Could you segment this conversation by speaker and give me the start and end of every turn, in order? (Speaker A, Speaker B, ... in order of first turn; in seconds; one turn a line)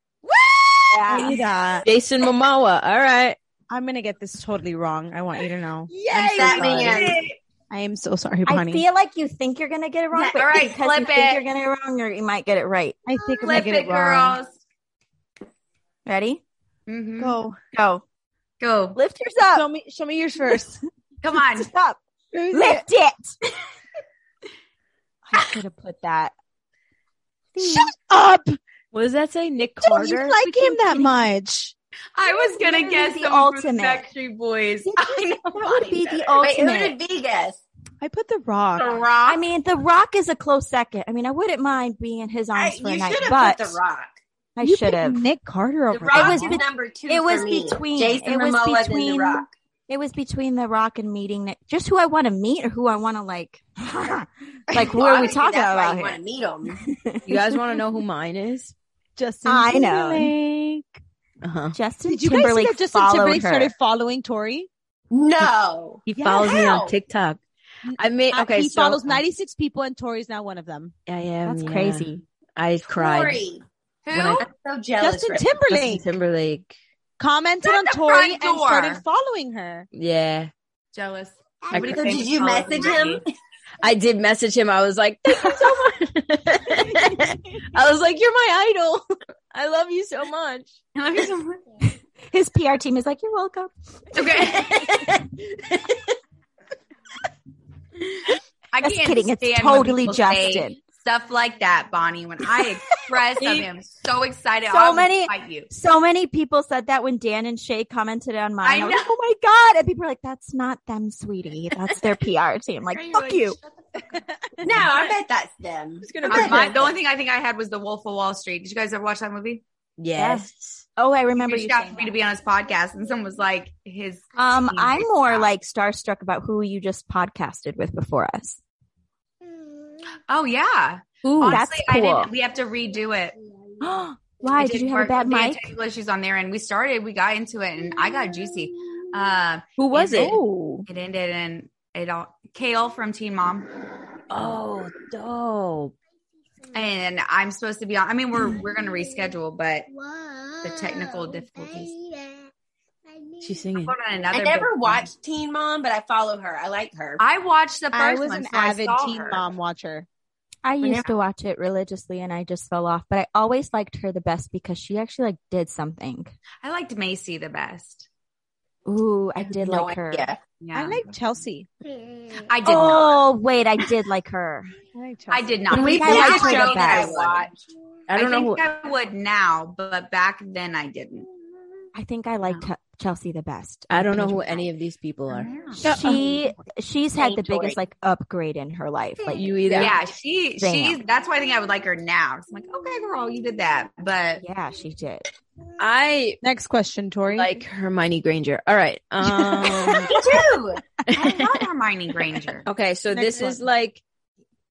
Speaker A: 0.3-1.2
Speaker B: 0.9-1.4
Speaker C: 1.0-1.9
Speaker D: 1.8-3.4
Speaker C: 3.7-7.1
Speaker A: 5.9-7.3
Speaker E: 6.2-7.3
Speaker D: 6.4-7.0
Speaker C: 7.7-8.8
Speaker B: 8.5-13.0
Speaker A: 10.1-11.4
Speaker C: 13.1-14.4
Speaker A: 13.4-14.6
Speaker B: 16.1-16.4
Speaker A: 16.9-17.4
Speaker C: 17.2-17.6
Speaker B: 17.7-18.0
Speaker A: 18.6-19.0
Speaker B: 18.9-19.7
Speaker C: 19.5-20.8
Speaker A: 21.2-21.7
Speaker B: 21.6-22.0
Speaker C: 22.3-22.9
Speaker B: 22.5-23.4
Speaker B: 25.2-26.3
Speaker B: 27.6-27.9
Speaker C: 27.6-28.6
Speaker D: 28.9-30.4
Speaker C: 29.8-31.7
Speaker B: 30.4-31.2
Speaker A: 32.1-36.3
Speaker B: 32.2-34.1
Speaker B: 34.9-37.0
Speaker E: 36.4-37.6
Speaker C: 38.0-39.0
Speaker A: 38.8-39.4
Speaker B: 39.3-43.8
Speaker E: 42.5-44.2
Speaker B: 44.6-45.2
Speaker C: 44.6-46.6
Speaker E: 45.9-49.5
Speaker B: 46.1-56.2
Speaker E: 54.8-56.8
Speaker B: 56.8-57.4
Speaker D: 57.3-58.7
Speaker C: 59.2-61.0
Speaker B: 59.5-60.3
Speaker D: 61.4-61.8
Speaker B: 61.7-63.7
Speaker C: 62.0-64.7
Speaker E: 65.1-66.9
Speaker D: 66.1-67.4
Speaker C: 66.1-66.7
Speaker C: 67.8-70.9
Speaker D: 68.0-69.2
Speaker D: 71.1-73.4
Speaker B: 71.5-72.2
Speaker E: 72.9-73.6
Speaker A: 74.1-74.5
Speaker D: 74.1-74.5
Speaker E: 74.2-75.5
Speaker C: 75.0-76.0
Speaker D: 75.7-76.7
Speaker C: 77.2-79.9
Speaker A: 77.6-79.0
Speaker D: 79.9-80.5
Speaker A: 80.9-83.2
Speaker D: 81.7-82.2
Speaker E: 81.8-83.2
Speaker D: 83.8-90.8
Speaker A: 91.0-91.8
Speaker B: 92.3-93.7
Speaker A: 94.1-94.9
Speaker D: 94.4-96.2
Speaker A: 98.7-105.7
Speaker B: 98.8-100.8
Speaker D: 103.4-103.7
Speaker B: 104.7-113.6
Speaker A: 108.6-109.2
Speaker A: 112.9-113.6
Speaker C: 114.1-114.6
Speaker E: 114.6-116.7
Speaker D: 116.0-116.9
Speaker A: 116.2-119.6
Speaker D: 120.0-120.8
Speaker B: 120.2-122.2
Speaker A: 121.4-125.5
Speaker B: 124.4-128.6
Speaker A: 130.3-133.4
Speaker B: 131.4-132.3
Speaker B: 133.8-135.7
Speaker A: 134.6-143.7
Speaker D: 139.8-140.4
Speaker C: 140.2-140.9
Speaker D: 144.3-145.9
Speaker A: 146.7-149.9
Speaker A: 150.6-152.0
Speaker D: 153.4-153.9
Speaker A: 153.8-155.1
Speaker E: 154.3-157.2
Speaker A: 157.2-159.3
Speaker C: 157.9-160.1
Speaker E: 159.1-159.4
Speaker B: 160.7-166.3
Speaker A: 166.6-168.1
Speaker B: 168.9-170.3
Speaker E: 169.4-170.4
Speaker A: 170.6-171.1
Speaker C: 170.7-171.7
Speaker A: 172.4-173.2
Speaker B: 172.7-174.8
Speaker C: 174.9-175.6
Speaker A: 175.3-177.5
Speaker B: 175.7-177.1
Speaker E: 175.7-177.6
Speaker D: 178.1-178.6
Speaker A: 178.1-181.3
Speaker B: 181.9-184.7
Speaker D: 183.9-185.5
Speaker A: 185.3-185.9
Speaker C: 185.8-186.2
Speaker B: 185.8-189.9
Speaker E: 187.2-187.8
Speaker D: 189.3-190.0
Speaker A: 189.7-194.4
Speaker B: 190.6-191.0
Speaker B: 194.4-195.3
Speaker D: 195.8-196.4
Speaker C: 196.4-197.6
Speaker D: 197.3-200.4
Speaker C: 199.3-200.0
Speaker E: 200.0-200.8
Speaker A: 201.1-202.7
Speaker D: 201.2-201.5
Speaker D: 202.6-204.0
Speaker C: 203.1-203.6